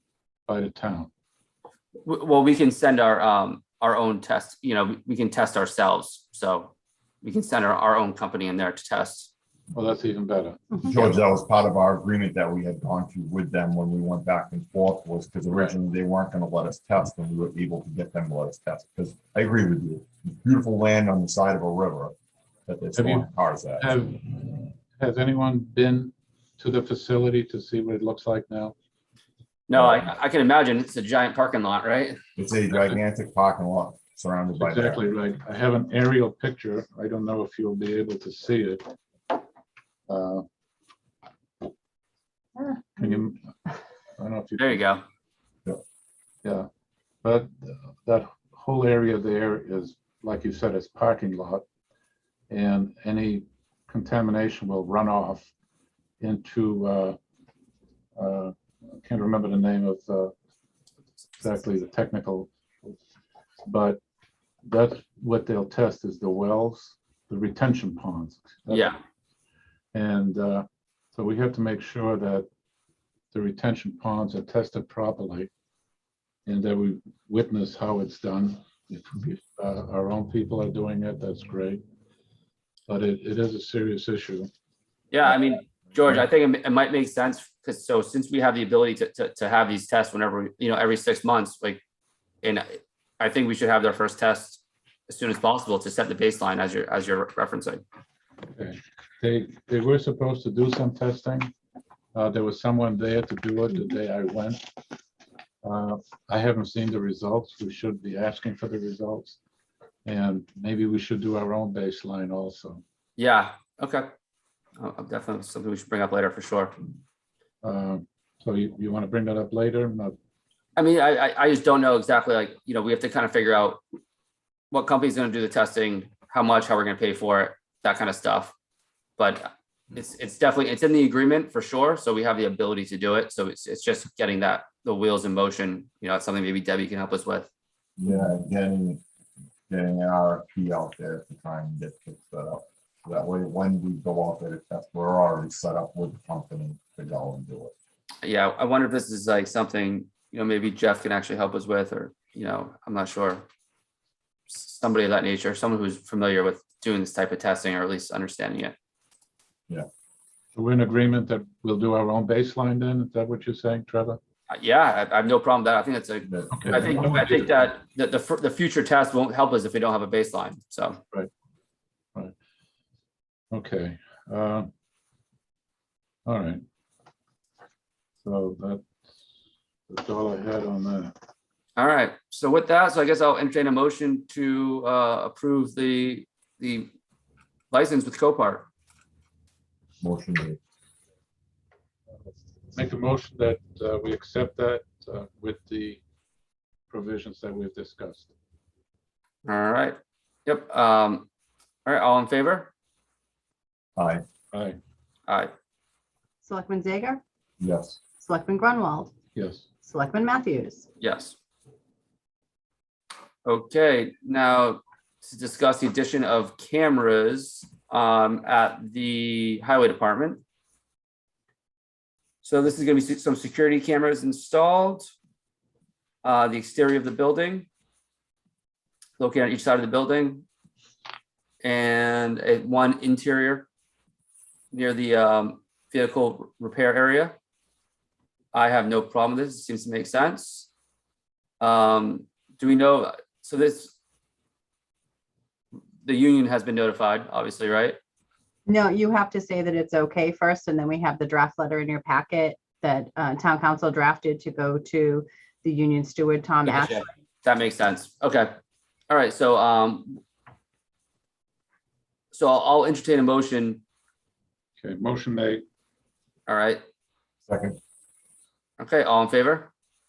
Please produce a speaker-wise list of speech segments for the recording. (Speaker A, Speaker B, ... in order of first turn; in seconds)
Speaker A: 0.5-1.1, 9.7-10.6, 23.0-28.7, 34.6-38.9, 40.1-40.4, 43.0-43.5, 44.2-44.9, 47.2-51.6, 52.5-55.5, 56.2-57.2, 58.2-60.3, 61.4-63.0, 63.6-64.0, 64.6-69.0, 69.9-72.5, 73.3-75.5, 76.5-81.8, 82.9-84.5, 98.5-101.5, 102.1-104.6, 105.6-109.4, 110.0-112.8, 117.6-120.2, 160.5-164.2, 166.5-167.5, 173.5-174.7, 176.2-176.6, 178.2-178.9, 179.9-181.1, 192.7-196.0, 196.9-198.3, 204.5-204.8, 209.3-209.7, 264.8-265.6
Speaker B: 2.0-9.3, 29.7-32.2, 44.6-45.0, 68.7-69.0, 85.1-91.8, 92.4-97.8, 113.2-114.1, 114.8-116.7, 120.8-123.8, 124.7-128.5, 129.2-137.5, 148.2-153.4, 154.5-158.7, 164.5-171.0, 181.8-186.9, 187.7-188.7, 199.4-201.3, 201.8-202.7, 205.3-205.5, 211.0-211.4, 213.4-220.4, 222.4-225.1, 226.2-227.7, 229.2-230.4, 231.6-233.7, 234.7-237.4, 238.5-240.7, 241.6-244.0, 246.0-248.0, 256.6-258.5, 259.1-260.2, 262.3-263.8, 266.5-266.8, 268.8-269.7
Speaker C: 10.8-22.1, 22.6-23.9, 29.7-30.1, 32.4-35.0, 138.0-139.0, 139.7-147.7, 166.3-167.2, 190.0-190.6, 203.9-204.2, 207.6-208.0, 267.5-267.8
Speaker D: 206.4-207.2, 208.2-209.1, 209.8-210.9, 248.7-257.1